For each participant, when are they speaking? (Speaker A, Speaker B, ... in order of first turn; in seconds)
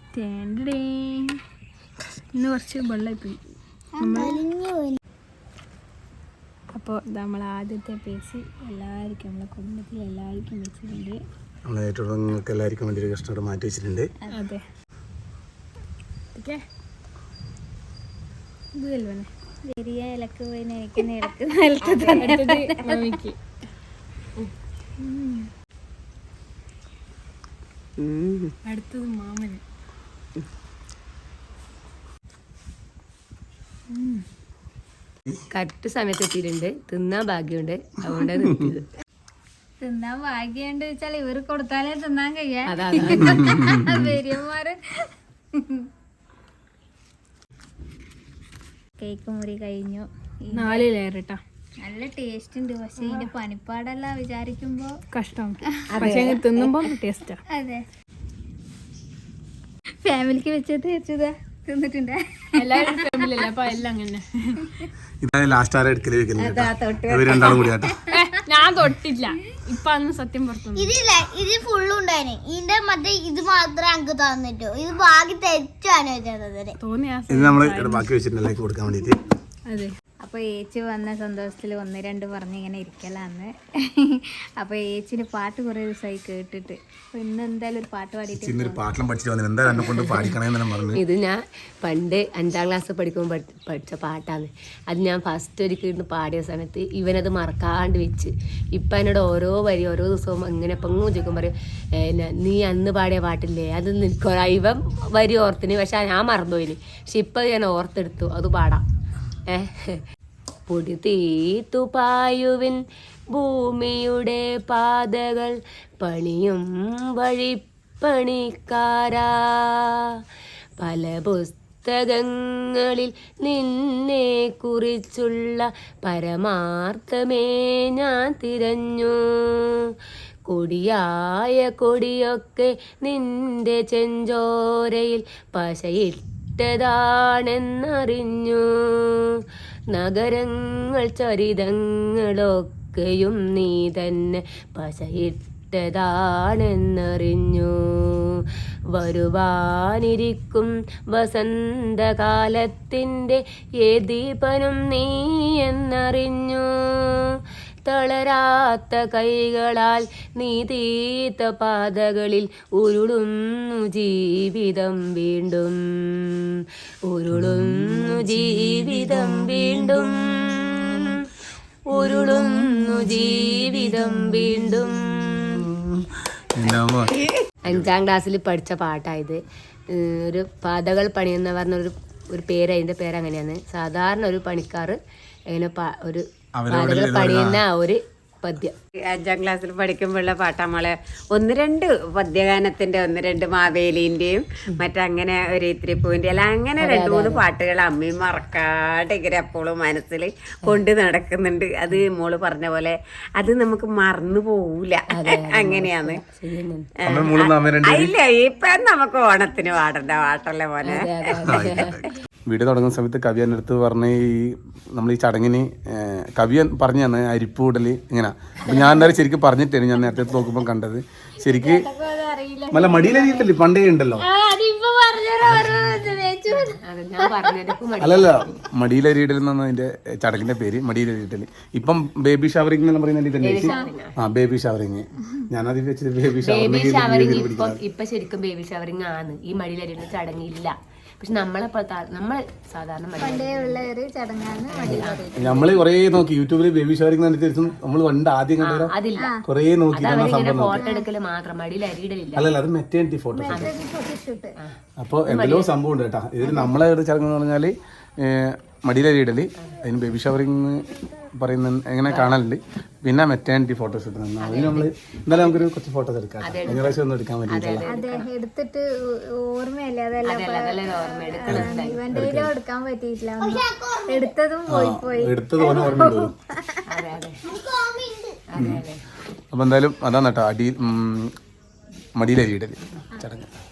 Speaker A: 0.1-1.3, 2.4-3.3, 6.8-11.2, 14.2-14.5, 18.8-23.2, 25.0-25.4, 39.8-44.8, 49.0-50.9, 51.8-54.9, 57.5-57.8, 60.0-63.4, 66.4-68.1, 80.2-88.8, 221.5-223.5, 224.2-227.5, 233.6-233.9, 243.2-245.8, 249.2-249.4, 250.7-251.1, 253.3-254.6, 256.4-256.7, 267.9-276.8
Speaker B: 2.8-3.3, 4.0-4.4, 14.3-14.6, 16.3-16.6, 22.1-23.4, 28.6-29.6, 33.9-34.2, 50.5-51.4, 53.0-53.3, 55.1-57.4, 62.5-64.7, 68.1-71.0, 76.8-78.1, 79.7-79.9
Speaker C: 4.0-5.0, 70.8-76.8, 273.4-274.3, 277.5-278.4
Speaker D: 11.7-14.1, 43.0-44.1, 65.2-67.9, 77.3-79.2, 88.3-91.0, 167.3-170.8, 171.9-177.9, 186.6-187.6, 207.0-208.1, 211.5-221.8, 222.7-224.2, 228.0-237.8, 244.8-248.9, 249.4-250.8, 252.3-253.7, 255.0-267.9, 271.4-272.5, 274.7-276.3, 278.5-278.8, 279.5-281.3, 282.1-283.5
Speaker E: 21.9-22.3, 28.0-28.5, 189.1-206.2, 207.0-211.6
Speaker F: 35.5-38.8, 42.7-43.5, 56.0-56.7, 89.8-90.4, 90.9-101.5, 102.0-108.8, 109.5-110.0, 110.7-112.8, 113.3-116.6, 117.1-119.7, 120.8-129.9, 130.5-139.4, 139.9-147.7, 148.9-157.2, 157.9-170.9, 171.9-175.6, 177.6-179.4, 179.9-185.0, 185.5-188.7, 196.8-197.4, 205.1-206.8, 210.8-212.0, 218.7-219.1, 220.1-220.4, 226.5-228.6, 233.4-234.1, 236.4-243.9, 244.7-245.3, 248.6-249.3, 249.9-252.5, 253.5-253.8, 254.6-255.7, 262.1-262.4, 264.4-265.6, 266.4-268.3, 270.2-272.0, 276.9-277.4, 278.5-279.0